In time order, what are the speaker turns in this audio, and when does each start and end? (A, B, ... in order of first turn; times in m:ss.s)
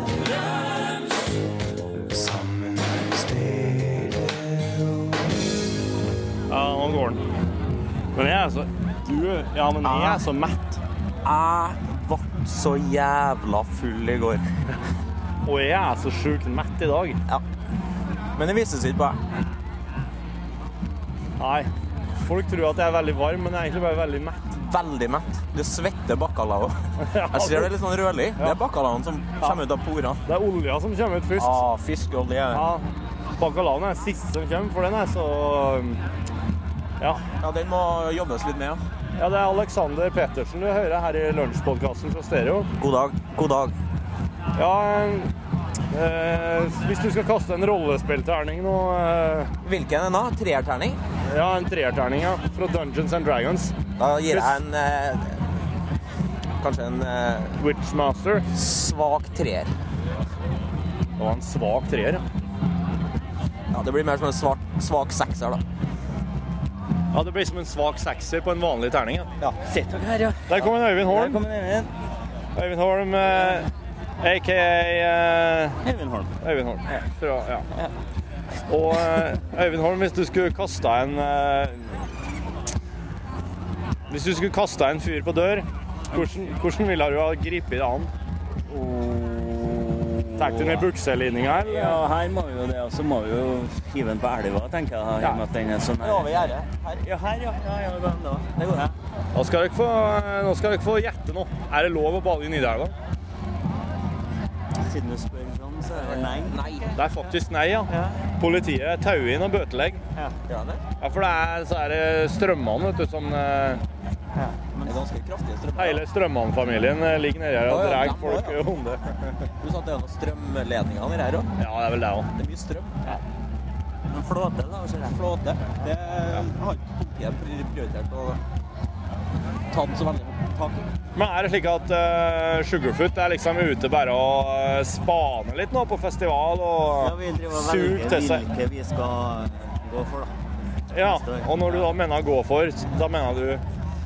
0:06.5-0:07.2 A
0:08.1-0:10.8 A
0:09.8-0:10.2 B
0:11.2-0:14.5 B
0:15.4-0:17.2 A
0:18.4-0:19.2 B
0:21.4-0:24.5 A
0:24.5-0:30.2 B
0:27.0-0:27.7 A
0:30.2-0:31.6 A
0:31.4-0:32.7 B
0:32.5-0:36.0 A
0:37.4-0:38.8 B
0:39.2-0:42.7 A
0:42.8-0:43.7 B
0:44.5-0:45.3 A
0:45.9-0:49.5 A
0:49.6-0:51.0 B
0:51.2-0:53.8 A
0:54.0-0:55.4 B
0:54.3-0:54.6 A
0:56.6-0:57.6 B
0:57.6-0:58.4 A
0:58.5-0:59.7 B
1:01.2-1:02.2 A
1:03.7-1:05.6 B
1:07.1-1:09.3 A
1:09.6-1:11.9 C
1:10.5-1:11.4 A
1:12.5-1:15.8 A
1:15.8-1:16.3 C
1:16.4-1:17.7 A
1:18.7-1:22.1 A
1:24.1-1:28.1 A
1:28.7-1:30.9 C
1:30.4-1:32.0 A
1:31.4-1:36.5 C
1:36.0-1:37.0 B
1:37.0-1:38.9 C
1:38.6-1:38.8 B
1:39.3-1:42.9 A
1:44.8-1:46.6 C
1:45.9-1:47.0 B
1:46.9-1:50.0 A
1:47.9-1:48.2 C
1:50.4-1:50.8 B
1:51.0-1:53.8 A
1:54.4-1:55.0 C
1:54.8-1:56.0 B
1:55.8-1:59.5 A
1:57.6-1:58.6 B
1:59.6-2:01.5 B
2:01.6-2:02.3 A
2:02.3-2:02.9 B
2:04.1-2:05.2 C
2:05.1-2:08.4 B
2:09.7-2:10.8 B
2:11.1-2:18.4 A
2:16.9-2:20.3 C
2:20.9-2:23.6 A
2:21.0-2:21.9 C